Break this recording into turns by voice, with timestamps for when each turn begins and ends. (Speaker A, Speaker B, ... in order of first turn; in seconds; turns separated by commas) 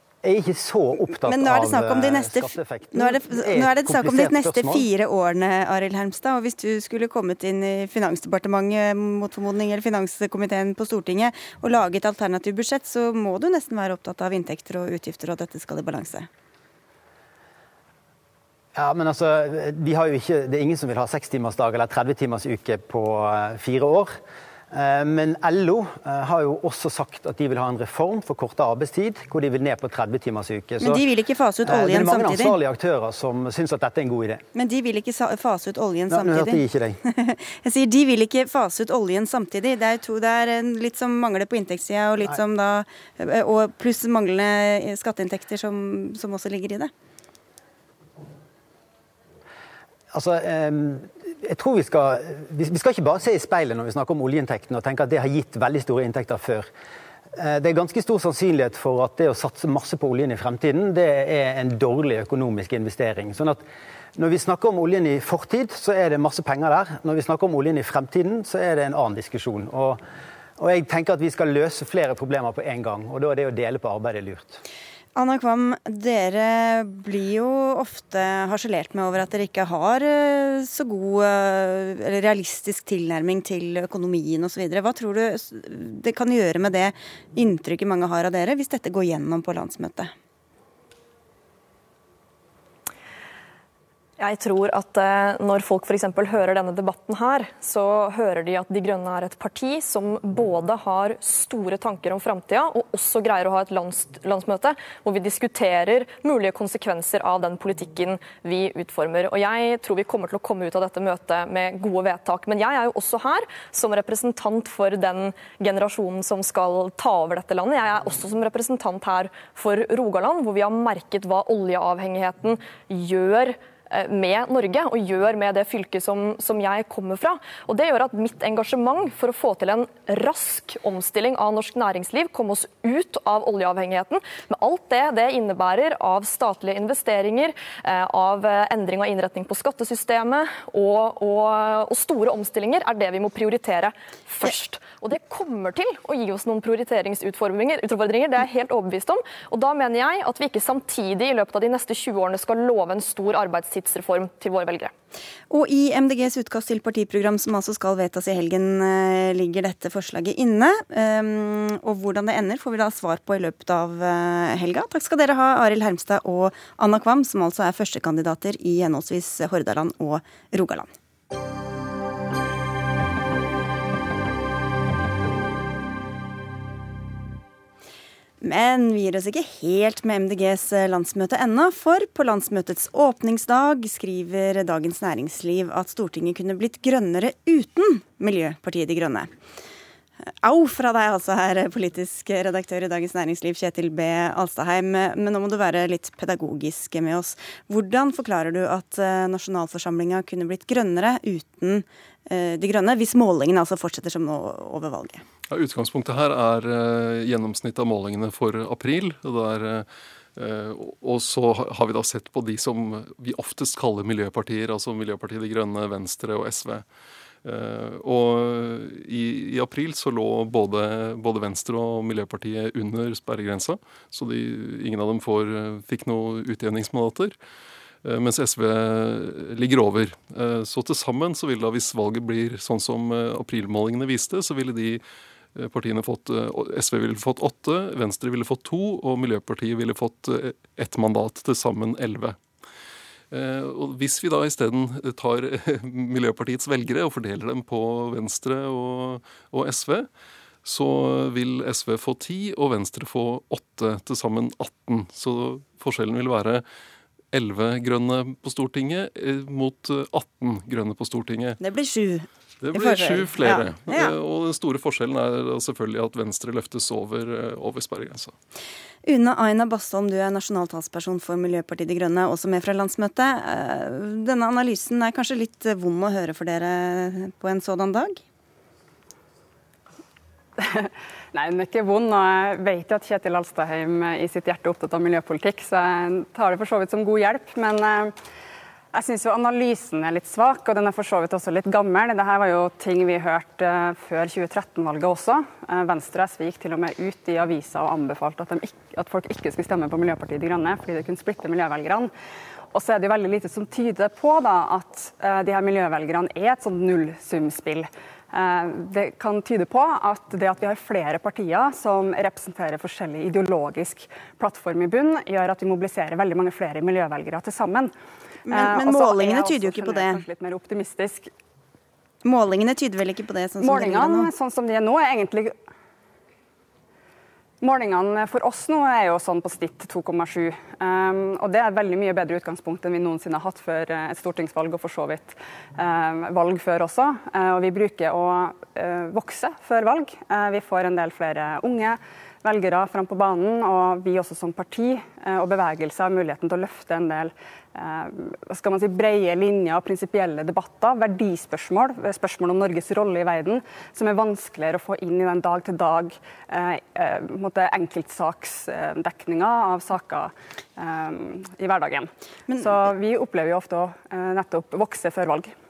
Speaker A: 0.2-4.9, Speaker B: 1.2-16.3, Speaker A: 18.7-24.2, Speaker A: 24.7-31.0, Speaker B: 30.8-32.5, Speaker A: 31.6-34.4, Speaker B: 34.5-46.9, Speaker A: 36.1-37.0, Speaker A: 50.1-56.7, Speaker A: 57.3-63.6, Speaker A: 64.2-70.0, Speaker A: 70.6-74.6, Speaker B: 75.1-90.1, Speaker C: 94.2-154.9, Speaker B: 155.5-170.9, Speaker B: 178.4-189.3, Speaker B: 190.4-205.2, Speaker D: 205.5-216.8, Speaker D: 217.4-227.4, Speaker D: 228.0-235.0, Speaker D: 235.6-242.4, Speaker D: 243.3-250.1, Speaker D: 250.6-256.6, Speaker D: 257.3-261.6, Speaker B: 261.6-264.1, Speaker D: 262.6-268.3, Speaker B: 269.1-278.2, Speaker E: 280.6-288.1, Speaker E: 288.9-302.1, Speaker E: 302.7-317.9, Speaker E: 318.5-321.3, Speaker B: 318.5-320.2, Speaker B: 322.2-324.3, Speaker E: 323.6-325.6, Speaker E: 327.6-365.5, Speaker B: 362.5-362.8